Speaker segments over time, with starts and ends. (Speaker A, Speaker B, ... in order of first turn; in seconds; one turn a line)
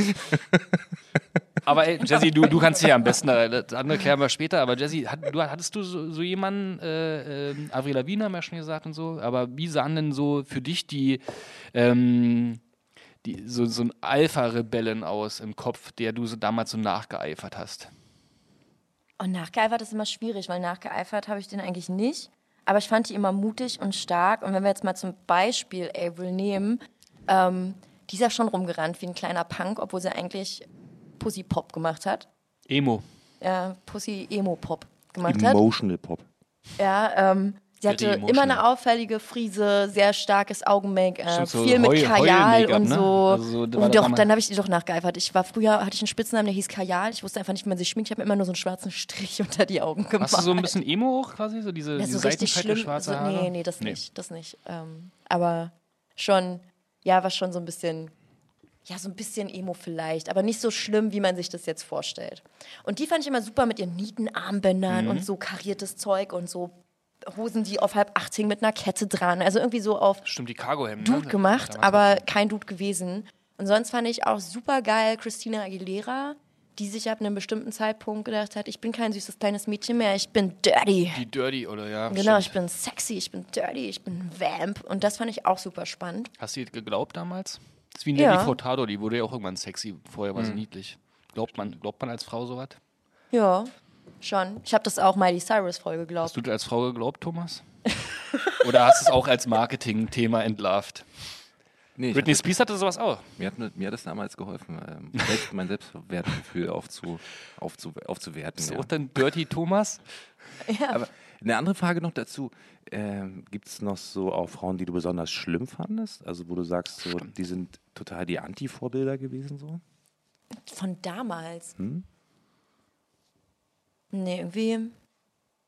Speaker A: 1.6-12.6
Speaker A: 13.2-17.9
Speaker B: 19.2-30.6
Speaker B: 31.2-32.3
Speaker A: 32.7-33.0
Speaker B: 33.4-35.6
Speaker C: 35.2-36.2
Speaker B: 36.8-50.7
Speaker A: 37.9-38.6
Speaker A: 41.3-44.3
Speaker A: 50.2-54.0
Speaker B: 52.0-58.1
Speaker B: 58.9-70.2
Speaker A: 64.9-65.3
Speaker A: 70.2-72.2
Speaker B: 71.0-81.2
Speaker A: 81.1-82.5
Speaker B: 82.1-86.3
Speaker A: 86.4-92.8
Speaker B: 88.1-88.5
Speaker B: 93.3-96.3
Speaker A: 96.2-97.6
Speaker A: 98.6-101.0
Speaker C: 102.0-102.5
Speaker A: 102.1-103.3
Speaker C: 103.4-108.9
Speaker A: 108.6-110.0
Speaker B: 110.6-111.0
Speaker C: 110.9-119.8
Speaker B: 120.6-121.7
Speaker C: 121.8-122.0
Speaker B: 124.1-124.9